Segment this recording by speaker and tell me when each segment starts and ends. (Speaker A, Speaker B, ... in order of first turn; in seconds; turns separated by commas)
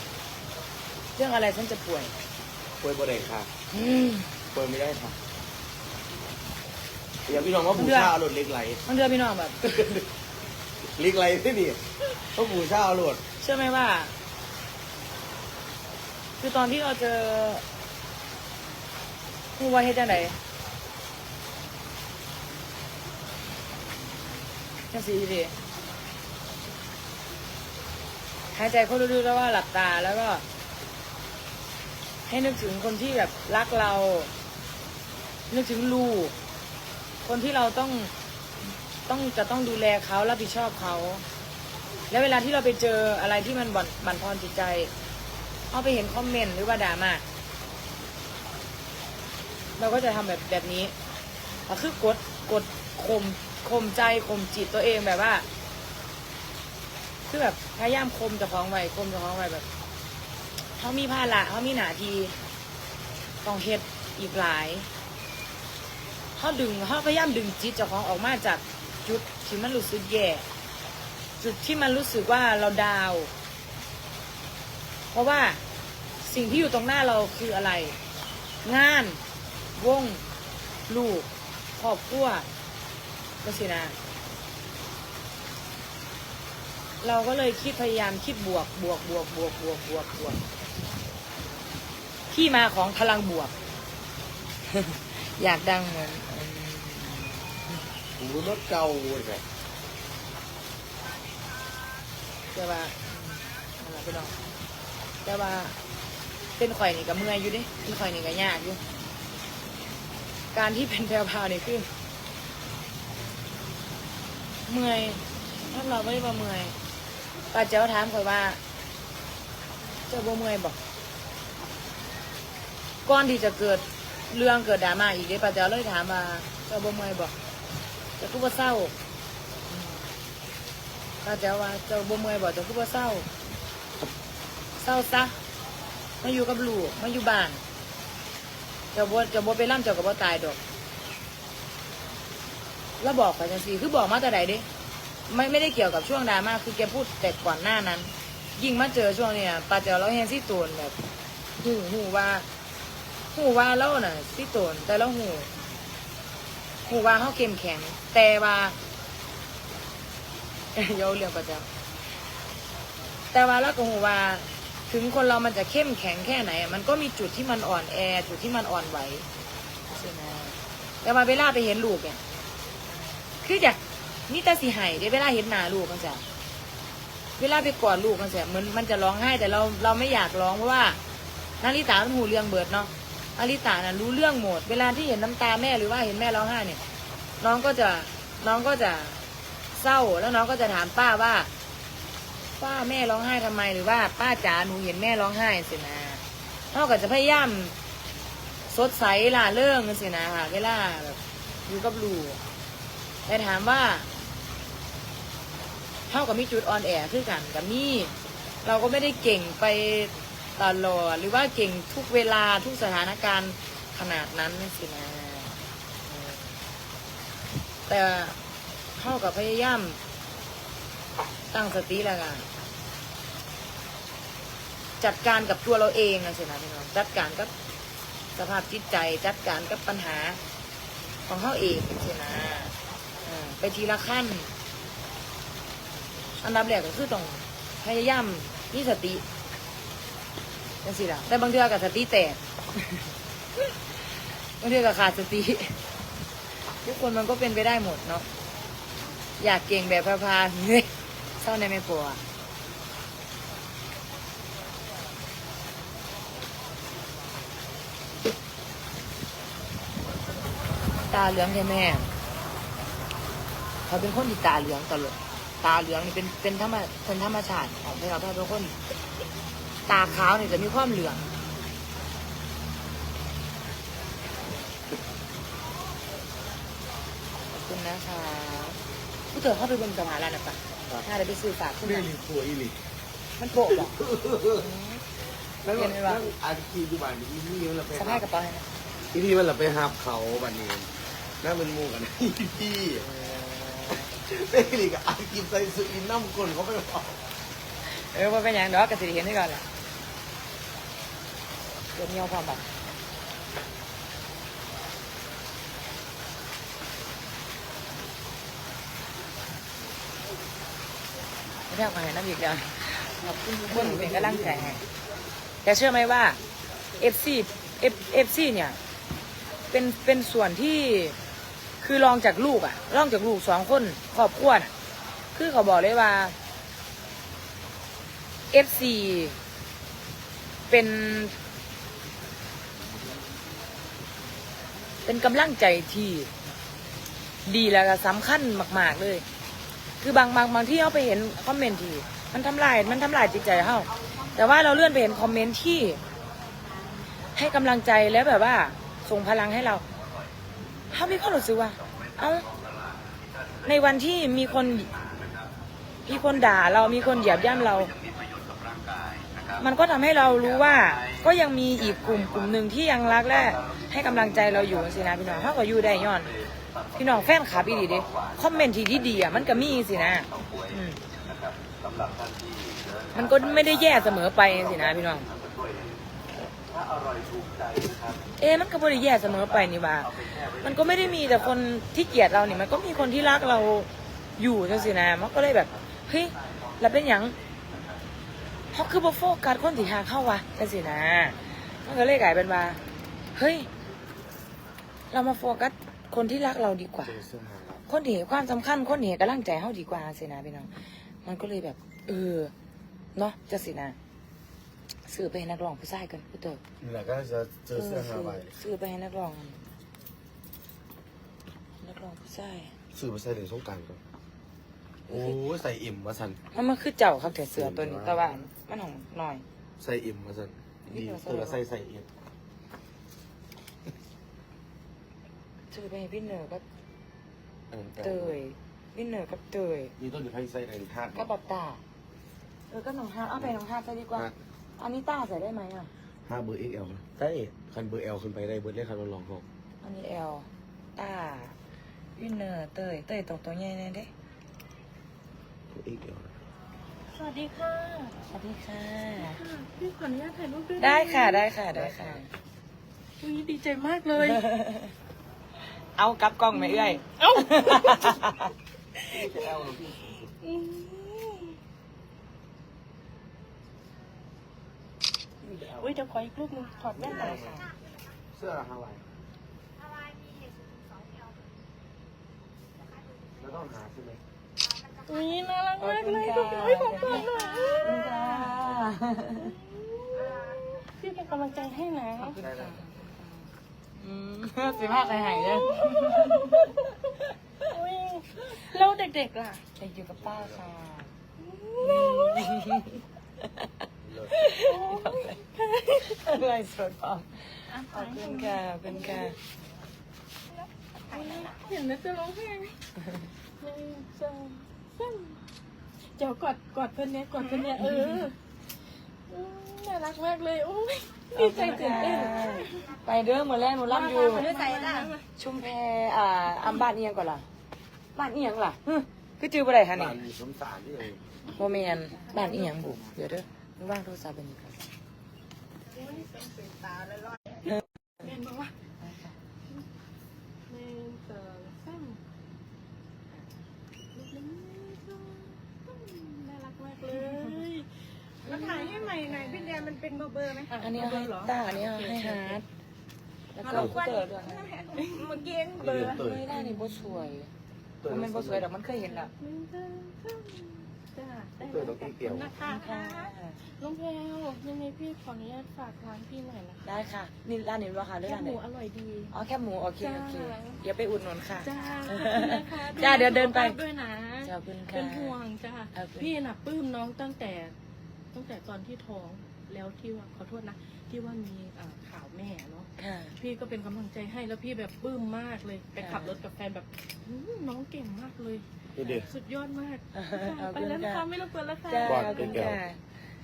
Speaker A: 1.1-2.1, Speaker B: 2.8-3.5, Speaker A: 3.7-4.3, Speaker B: 4.5-5.2, Speaker B: 7.3-8.8, Speaker A: 7.8-8.1, Speaker A: 8.8-9.6, Speaker B: 9.6-10.1, Speaker B: 10.8-13.2, Speaker A: 13.4-14.2, Speaker A: 16.4-17.6, Speaker A: 19.6-20.4, Speaker A: 24.9-25.6, Speaker A: 28.5-30.4, Speaker A: 32.3-34.3, Speaker A: 35.5-36.4, Speaker A: 37.2-38.1, Speaker A: 39.0-41.2, Speaker A: 42.1-44.9, Speaker A: 45.7-47.2, Speaker A: 49.8-50.9, Speaker A: 51.7-55.5, Speaker A: 57.3-59.6, Speaker A: 60.7-62.4, Speaker A: 63.4-64.9, Speaker A: 66.4-70.5, Speaker A: 71.4-73.3, Speaker A: 75.1-75.6, Speaker A: 76.2-78.0, Speaker A: 78.6-79.2, Speaker A: 79.8-80.2, Speaker A: 80.9-82.5, Speaker A: 83.4-84.0, Speaker A: 87.0-90.4, Speaker A: 92.3-93.5, Speaker A: 94.7-97.6, Speaker B: 98.2-99.5, Speaker A: 102.5-104.4, Speaker A: 105.2-105.8, Speaker A: 106.6-108.8, Speaker A: 110.5-111.9, Speaker A: 114.7-116.8, Speaker A: 117.5-118.6, Speaker A: 120.1-120.8, Speaker A: 123.0-127.3, Speaker A: 128.2-128.9, Speaker A: 131.2-133.3, Speaker A: 134.8-135.4, Speaker A: 136.2-137.6, Speaker A: 138.9-140.6, Speaker A: 143.0-144.7, Speaker A: 145.3-151.0, Speaker A: 151.6-152.5, Speaker A: 153.3-155.5, Speaker A: 156.8-158.8, Speaker A: 160.7-161.7, Speaker A: 163.3-169.3, Speaker A: 169.9-172.2, Speaker A: 173.4-176.2, Speaker A: 177.4-181.0, Speaker A: 181.6-186.8, Speaker A: 187.4-189.2, Speaker A: 189.7-191.5, Speaker A: 192.6-197.8, Speaker A: 198.7-202.4, Speaker A: 203.3-204.1, Speaker A: 206.1-215.5, Speaker A: 216.1-216.5, Speaker A: 217.9-218.4, Speaker A: 219.0-220.0, Speaker A: 221.5-222.5, Speaker A: 225.0-227.5, Speaker A: 228.3-230.4, Speaker A: 231.3-234.5, Speaker A: 236.4-239.2, Speaker A: 240.8-242.4, Speaker A: 244.6-245.8, Speaker A: 246.8-248.3, Speaker A: 249.4-252.2, Speaker A: 261.1-262.1, Speaker A: 263.9-268.8, Speaker A: 269.9-271.3, Speaker A: 277.5-278.8, Speaker A: 279.3-282.1, Speaker B: 281.8-282.8, Speaker A: 283.4-284.0, Speaker B: 283.7-284.7, Speaker A: 284.5-285.0, Speaker B: 285.6-288.3, Speaker A: 285.7-286.2, Speaker A: 287.9-288.7, Speaker B: 289.1-293.1, Speaker A: 293.1-294.1, Speaker B: 294.2-297.2, Speaker A: 297.8-299.6, Speaker A: 301.9-302.7, Speaker A: 311.7-314.8, Speaker B: 313.2-314.8, Speaker A: 315.6-316.4, Speaker A: 317.0-318.8, Speaker A: 319.7-321.2, Speaker A: 321.8-324.7, Speaker A: 325.3-326.4, Speaker A: 328.5-329.4, Speaker A: 330.7-331.4, Speaker A: 335.1-336.3, Speaker A: 337.4-339.2, Speaker A: 340.0-346.0, Speaker A: 347.4-349.9, Speaker A: 350.9-352.5, Speaker A: 353.6-354.9, Speaker A: 356.1-357.9, Speaker A: 359.6-366.4, Speaker A: 366.9-371.0, Speaker A: 373.1-375.3, Speaker A: 378.4-387.4, Speaker A: 388.7-392.8, Speaker A: 393.3-393.7, Speaker A: 395.1-397.2, Speaker B: 397.0-397.8, Speaker A: 397.9-402.5, Speaker A: 403.1-404.0, Speaker A: 405.1-406.6, Speaker B: 406.8-408.6, Speaker A: 407.7-409.7, Speaker A: 411.8-412.8, Speaker B: 412.9-414.0, Speaker A: 415.1-415.4, Speaker B: 415.1-416.4, Speaker A: 416.5-419.4, Speaker B: 417.3-418.4, Speaker B: 419.8-422.1, Speaker A: 420.9-421.6, Speaker A: 425.7-426.6, Speaker B: 427.7-428.4, Speaker A: 428.0-429.9, Speaker B: 430.0-431.3, Speaker A: 431.1-431.8, Speaker A: 432.7-435.9, Speaker B: 436.3-439.4, Speaker A: 439.8-441.6, Speaker A: 442.2-444.1, Speaker B: 445.7-446.3, Speaker C: 447.1-448.2, Speaker A: 448.2-449.4, Speaker C: 449.1-451.5, Speaker A: 450.8-452.3, Speaker B: 451.7-452.2, Speaker C: 453.2-454.5, Speaker A: 454.4-454.9, Speaker A: 455.9-458.4, Speaker C: 456.5-458.2, Speaker B: 459.1-460.3, Speaker C: 460.4-461.6, Speaker B: 465.4-465.9, Speaker C: 465.8-467.6, Speaker B: 467.0-467.5, Speaker A: 467.0-467.7, Speaker B: 468.3-469.1, Speaker D: 469.8-471.4, Speaker B: 473.4-474.2, Speaker C: 475.0-482.4, Speaker A: 475.8-477.3, Speaker A: 477.8-479.5, Speaker A: 482.2-486.7, Speaker B: 482.4-482.8, Speaker C: 485.6-486.8, Speaker C: 487.6-489.6, Speaker A: 489.8-491.1, Speaker B: 490.2-490.6, Speaker C: 491.4-492.5, Speaker A: 491.8-493.0, Speaker B: 494.0-494.4, Speaker A: 494.3-495.4, Speaker C: 494.6-496.1, Speaker A: 496.0-499.4, Speaker C: 497.7-499.4, Speaker C: 501.1-502.8, Speaker D: 501.1-501.6, Speaker C: 503.6-505.4, Speaker C: 506.1-508.4, Speaker A: 507.8-508.1, Speaker C: 509.3-513.0, Speaker A: 511.3-514.5, Speaker D: 514.1-515.2, Speaker C: 514.3-515.3, Speaker A: 515.4-517.5, Speaker A: 518.1-520.2, Speaker B: 519.9-521.3, Speaker A: 521.5-524.8, Speaker C: 526.0-526.3, Speaker D: 526.0-527.5, Speaker C: 527.6-528.7, Speaker A: 529.0-529.4, Speaker C: 530.7-532.2, Speaker C: 534.1-540.0, Speaker D: 538.5-540.7, Speaker C: 540.7-542.6, Speaker A: 540.8-542.6, Speaker A: 543.5-544.7, Speaker C: 543.6-544.0, Speaker D: 543.8-546.1, Speaker C: 544.9-545.9, Speaker B: 545.8-546.5, Speaker A: 546.2-547.5, Speaker C: 546.5-547.4, Speaker B: 548.0-548.7, Speaker A: 548.1-549.3, Speaker C: 549.0-557.0, Speaker B: 551.6-552.5, Speaker A: 552.6-553.6, Speaker A: 556.9-558.6, Speaker C: 558.2-559.3, Speaker A: 559.3-563.8, Speaker C: 560.0-560.8, Speaker C: 561.6-567.8, Speaker A: 564.4-565.3, Speaker A: 565.9-566.3, Speaker C: 568.3-582.7, Speaker A: 573.0-573.4, Speaker A: 576.0-576.3, Speaker B: 579.0-579.4, Speaker A: 579.0-579.3, Speaker A: 580.1-581.2, Speaker A: 581.9-583.1, Speaker B: 582.0-582.8